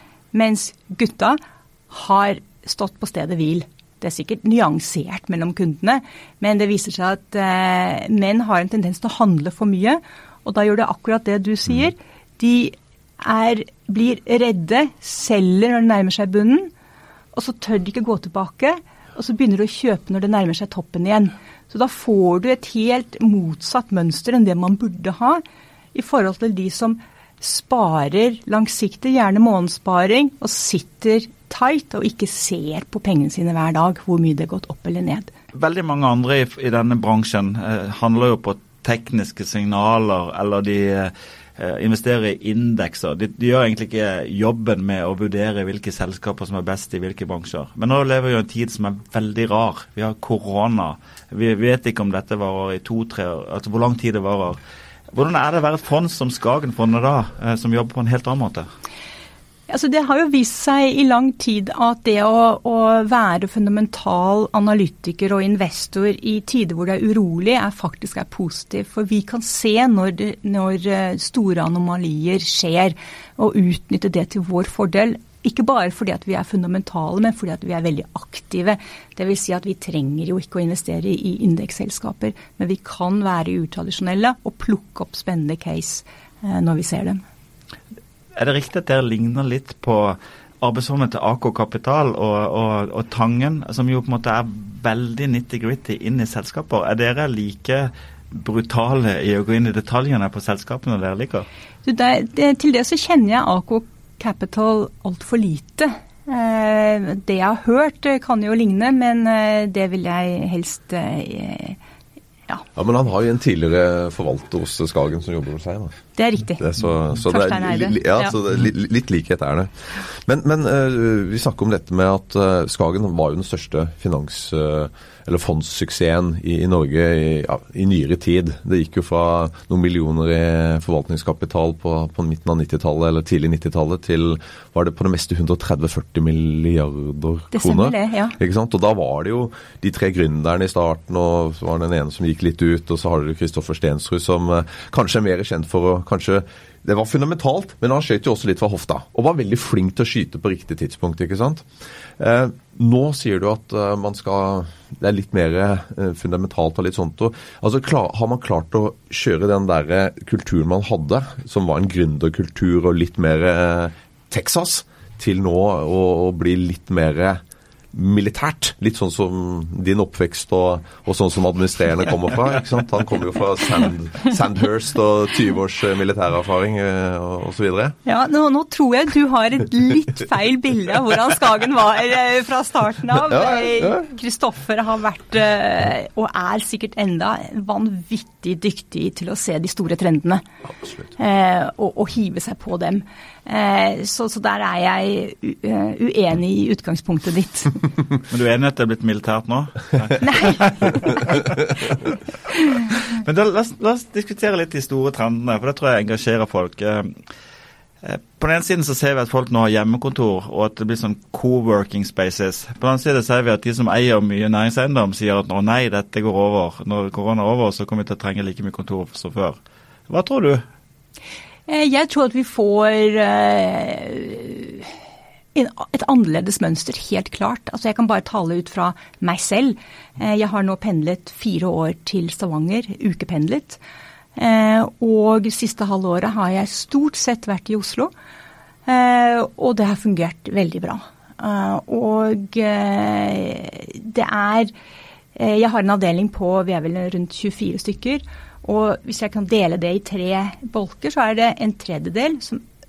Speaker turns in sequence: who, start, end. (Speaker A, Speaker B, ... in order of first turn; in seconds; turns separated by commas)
Speaker A: 0.3-16.7, Speaker A: 17.3-25.4, Speaker A: 25.9-35.3, Speaker B: 35.5-54.6, Speaker B: 55.1-58.7, Speaker A: 59.7-87.2, Speaker B: 88.3-101.5, Speaker A: 101.8-111.8, Speaker C: 112.7-116.0, Speaker A: 116.2-116.6, Speaker C: 116.5-167.4, Speaker A: 117.2-118.3, Speaker A: 137.5-138.3, Speaker C: 167.9-177.9, Speaker A: 178.1-190.4, Speaker C: 183.2-184.1, Speaker A: 191.1-197.8, Speaker B: 198.3-202.0, Speaker A: 200.2-200.7, Speaker B: 202.9-207.2, Speaker B: 208.0-220.6, Speaker A: 221.7-224.9, Speaker A: 225.5-233.8, Speaker A: 234.3-238.1, Speaker A: 238.8-244.7, Speaker A: 245.3-252.6